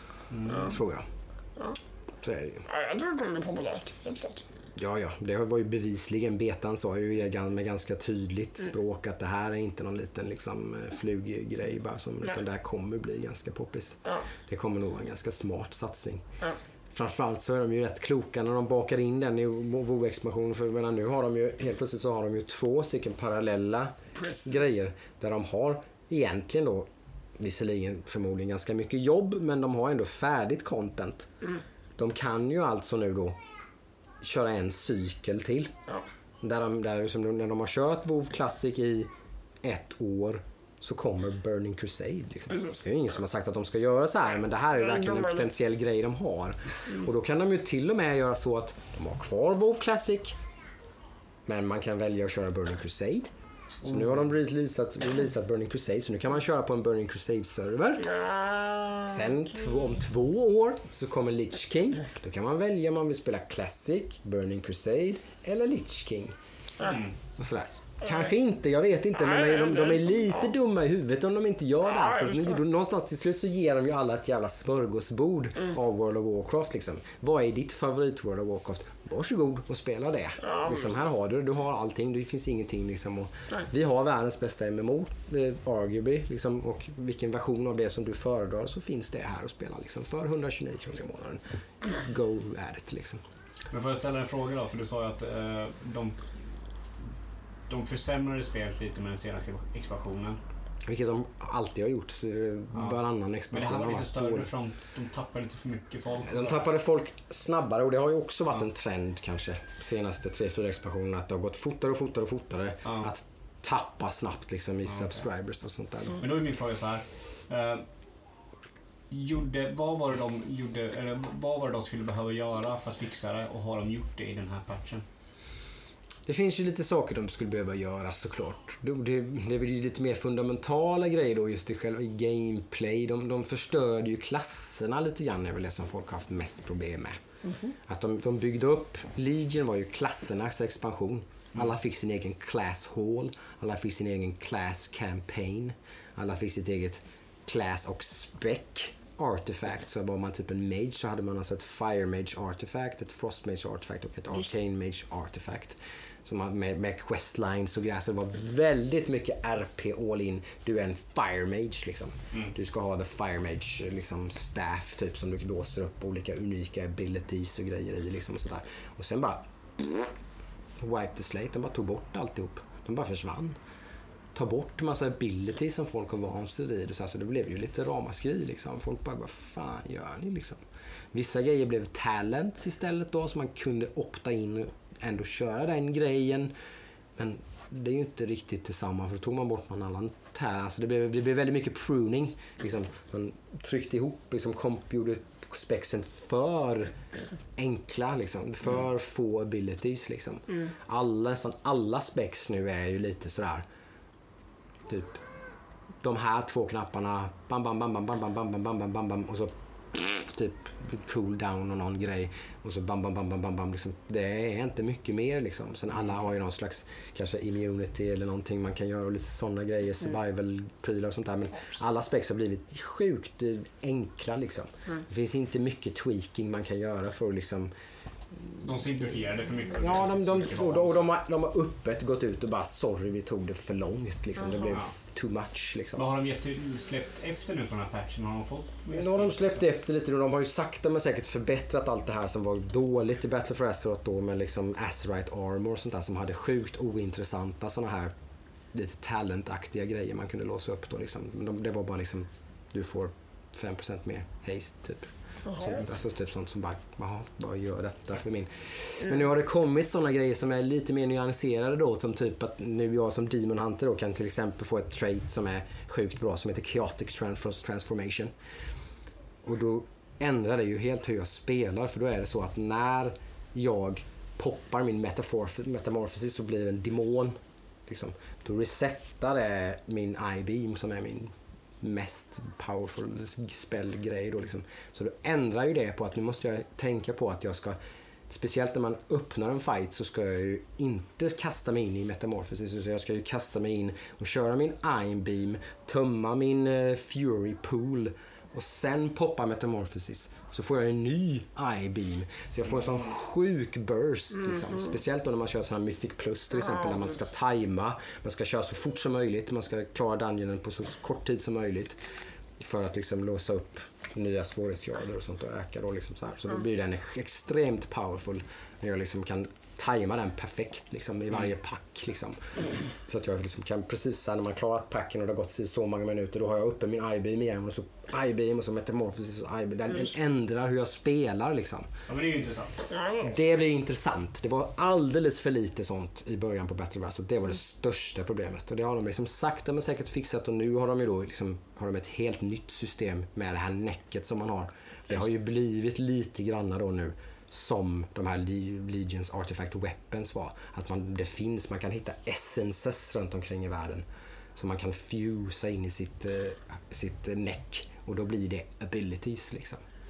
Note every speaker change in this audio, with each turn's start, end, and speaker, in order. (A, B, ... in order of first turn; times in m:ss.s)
0:00.3-0:00.8 A
0:00.5-0:01.0 B
0:00.5-0:00.7 C
0:02.2-0:02.6 B
0:02.7-0:04.4 C
0:04.8-0:16.2 B
0:16.9-0:31.3 B
0:24.2-0:24.6 C
0:32.0-0:33.4 B
0:34.2-0:35.7 B
0:36.4-0:39.1 B
0:39.6-0:50.4 B
0:42.5-0:42.8 C
0:44.8-0:45.5 C
0:51.4-0:53.3 B
0:53.8-0:54.2 A
0:53.8-0:58.2 B
0:58.1-0:59.2 C
0:59.0-1:06.3 B
1:06.8-1:07.1 A
1:07.4-1:33.2 B
1:09.2-1:10.4 C
1:11.9-1:12.6 C
1:20.5-1:21.0 C
1:33.7-1:36.6 A
1:37.7-1:40.4 A
1:40.8-1:44.5 B
1:42.7-1:46.7 A
1:46.2-1:56.2 B
1:52.8-1:53.1 A
1:54.9-1:55.2 A
1:56.2-1:57.9 A
1:59.1-2:05.0 A
2:06.2-2:17.2 B
2:17.8-2:50.1 B
2:50.8-2:53.6 B
2:54.3-3:00.6 B
3:01.1-3:06.5 B
3:07.2-3:16.9 B
3:17.6-3:23.6 B
3:24.9-3:25.2 B
3:26.0-3:47.7 B
3:48.3-3:48.6 B
3:48.6-3:51.1 A
3:49.7-3:56.0 B
3:55.9-3:59.5 A
3:58.9-4:08.1 B
4:08.7-4:28.3 B
4:29.4-5:12.0 B
5:12.6-5:31.9 B
5:32.1-5:32.9 A
5:32.9-5:33.3 C
5:33.2-5:59.8 B